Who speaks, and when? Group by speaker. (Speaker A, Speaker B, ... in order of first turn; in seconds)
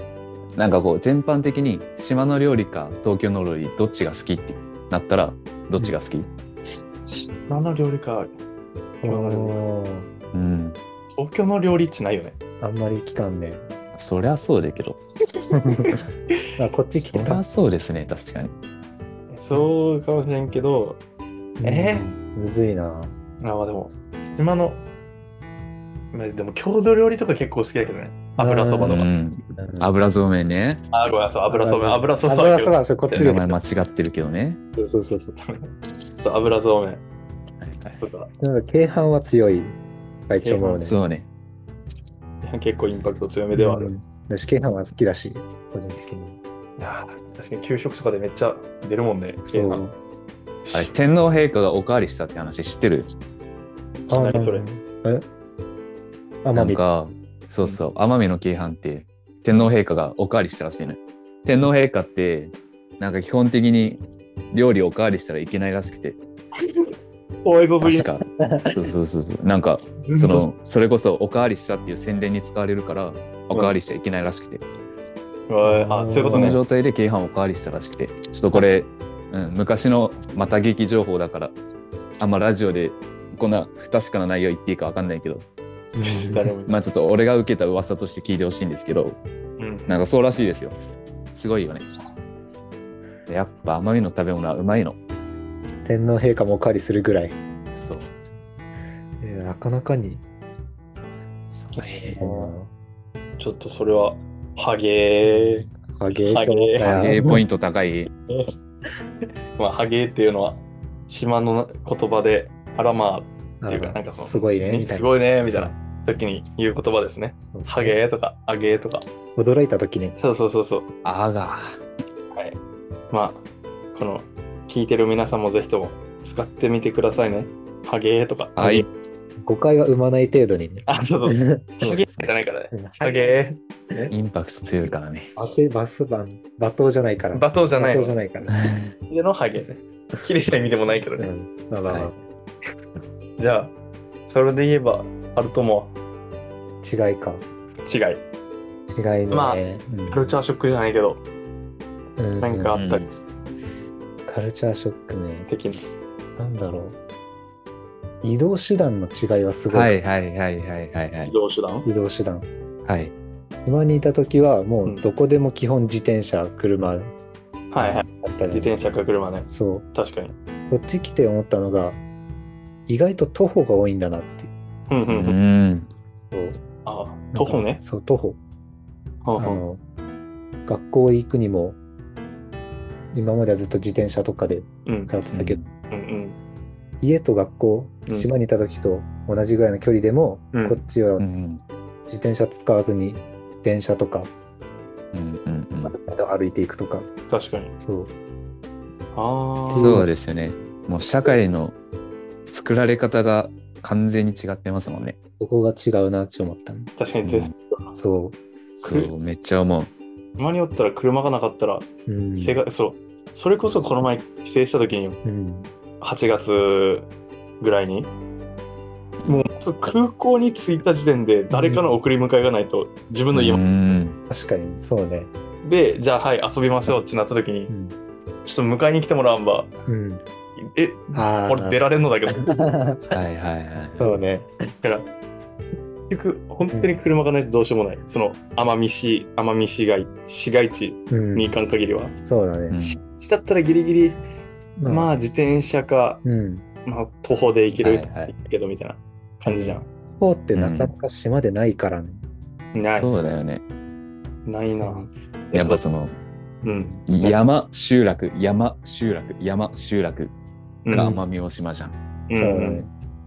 Speaker A: 0.6-6.3, 10.3-10.8, 13.9-15.0, 17.1-18.5, 28.8-30.9, 33.1-34.6, 37.6-38.0, 40.8-41.2, 50.7-53.1, 56.5-64.0, 64.5-66.2, 67.8-74.6, 76.3-81.5, 82.2-85.4, 86.7-89.2, 89.9-90.7, 91.3-91.9, 93.3-95.0, 97.7-98.1, 101.8-102.2, 106.8-108.1, 121.0-121.8, 128.6-128.9, 134.1-135.3, 138.5-138.9, 152.7-153.1, 159.7-161.3, 162.8-163.1, 175.1-175.9, 185.3-185.7, 191.2-191.6, 195.1-195.9, 199.8-201.7, 202.4-205.2, 207.2-207.5, 208.8-209.9, 223.3-224.2, 233.1-234.1, 242.7-243.0, 247.8-248.3, 250.5-250.9, 252.8-253.6, 255.5-256.1, 257.1-260.3, 260.9-261.9
Speaker B: 7.1-8.3, 9.0-9.6, 11.2-12.3, 15.7-16.0, 19.3-21.0, 21.6-22.1, 23.4-24.8, 26.1-29.1, 30.9-33.3, 34.8-37.0, 38.0-38.3, 40.4-40.8, 42.4-43.9, 46.8-49.8, 50.6-50.9, 54.1-54.7, 66.6-66.9, 67.4-68.1, 70.0-70.5, 75.5-76.6, 86.0-86.8, 89.6-89.9, 101.7-102.5, 103.4-105.7, 106.3-106.9, 109.6-119.1, 120.2-120.9, 123.1-128.9, 130.9-134.1, 137.3-138.2, 139.1-141.3, 143.4-143.7, 144.3-145.9, 147.8-148.2, 149.3-151.2, 152.4-153.0, 155.5-155.8, 161.2-161.9, 167.7-170.3, 174.9-175.3, 176.8-177.8, 179.2-179.6, 184.8-185.1, 185.9-186.4, 190.5-190.8, 197.3-197.7, 199.1-200.0, 207.0-207.9, 208.8-209.1, 210.4-215.2, 216.0-217.1, 217.6-218.1, 219.2-223.6, 225.6-227.7, 228.4-229.7, 230.6-232.8, 234.8-235.1, 236.1-242.1, 242.9-244.2, 244.9-246.2, 246.8-249.9, 252.7-253.1, 254.4-255.8, 256.6-257.4, 260.8-261.2, 262.3-262.9
Speaker C: 9.0-10.1, 12.6-13.7, 15.5-16.0, 16.6-17.4, 21.6-23.1, 28.4-29.0, 29.6-29.9, 31.5-33.6, 34.8-35.3, 38.4-39.8, 40.3-41.0, 43.5-46.4, 49.5-49.9, 54.1-55.2, 56.4-56.8, 68.4-68.9, 75.6-76.6, 85.9-86.5, 95.8-97.4, 99.2-100.2, 102.0-102.7, 105.2-107.4, 113.6-115.7, 117.5-118.0, 119.3-120.2, 129.4-132.1, 132.7-133.3, 135.3-138.6, 141.2-142.1, 146.8-147.4, 148.9-150.3, 152.2-152.8, 154.2-155.5, 156.4-156.9, 158.2-159.9, 161.8-162.5, 163.6-167.1, 167.8-168.9, 169.5-169.8, 170.7-172.0, 172.9-174.5, 176.3-176.6, 177.3-178.4, 179.4-179.8, 180.7-181.8, 183.1-185.6, 187.0-191.2, 192.1-194.3, 195.8-197.1, 197.8-198.1, 199.7-200.1, 205.4-206.9, 208.0-208.4, 212.1-212.6, 215.2-215.7, 221.5-221.9, 224.3-225.3, 227.7-227.9, 229.9-230.2, 231.1-231.8, 232.3-233.0, 234.0-234.5, 236.7-236.9, 241.1-241.5, 242.2-242.8, 244.8-245.1, 246.2-246.7, 249.5-252.2, 254.8-255.1, 256.6-257.0, 260.9-261.2, 262.3-262.9